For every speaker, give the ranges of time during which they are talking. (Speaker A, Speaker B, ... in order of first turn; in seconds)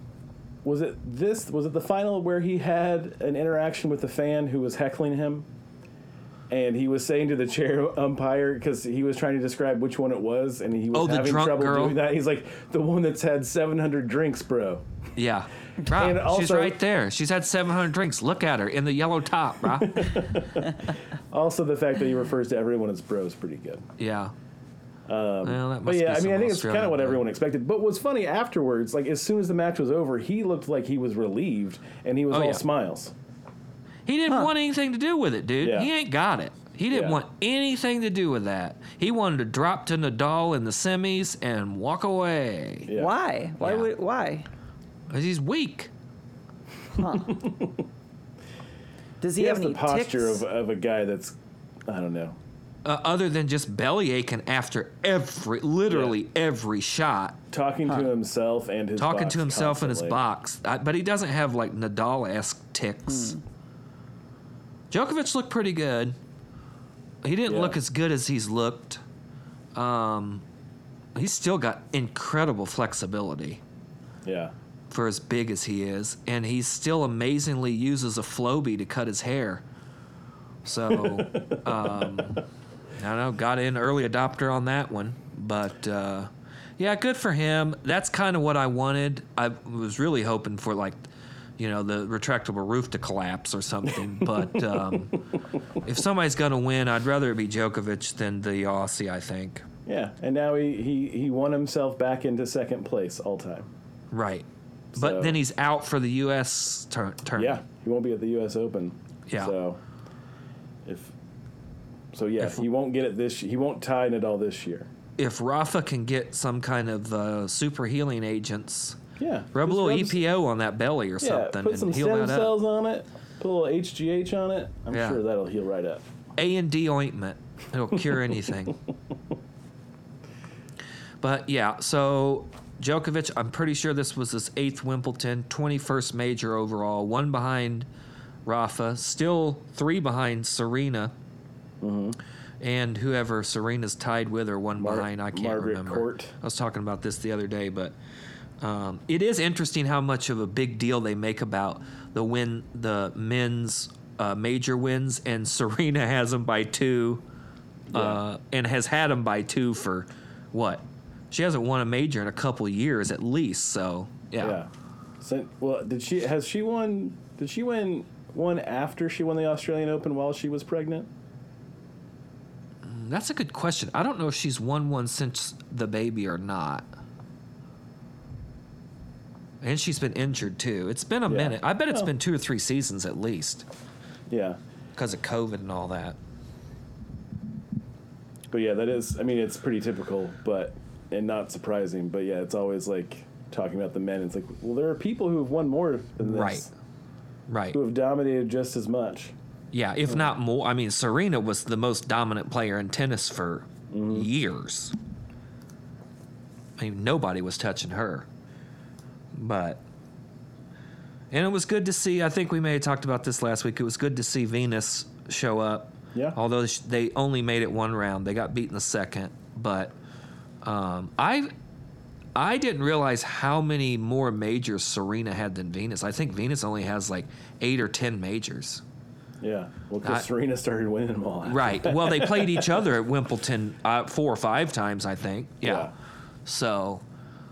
Speaker A: 0.6-5.5, 6.5-14.9, 15.9-16.8, 19.8-23.9, 25.1-33.1, 35.6-35.9, 36.9-37.2, 42.9-43.1, 47.3-47.8, 49.4-52.4, 55.9-56.2, 57.5-60.2, 67.5-67.8, 74.2-74.5, 80.9-82.1, 99.9-103.7, 104.9-105.4, 107.4-109.8, 110.8-111.1, 112.1-114.9, 119.2-120.2, 121.2-126.1, 141.8-142.2, 144.8-146.3, 157.9-158.2, 164.4-164.7, 165.2-171.1, 181.3-182.1, 184.3-184.6, 188.5-196.7, 197.7-199.3, 203.9-204.3, 229.4-232.8, 235.6-235.9
Speaker B: 10.9-12.0, 15.2-20.3, 24.0-24.3, 25.4-27.2, 32.3-32.6, 34.1-42.9, 43.6-43.9, 45.1-45.9, 52.9-57.4, 59.0-63.4, 64.9-66.2, 67.2-69.0, 69.8-70.4, 71.2-73.6, 74.9-79.6, 80.7-82.4, 83.0-91.0, 91.6-99.7, 104.1-107.6, 109.3-109.5, 115.2-119.0, 119.5-122.5, 124.9-125.2, 126.4-128.8, 131.2-137.9, 138.5-141.1, 142.6-148.0, 148.6-157.2, 157.9-164.6, 172.8-176.9, 179.6-183.7, 185.0-186.2, 196.2-196.7, 197.5-197.8, 199.7-204.9, 206.8-208.3, 209.3-209.8, 211.3-219.9, 220.6-221.5, 222.3-228.8, 231.4-235.9, 236.5-237.0
Speaker C: 42.9-44.5, 47.0-47.5, 49.2-50.4, 63.1-63.4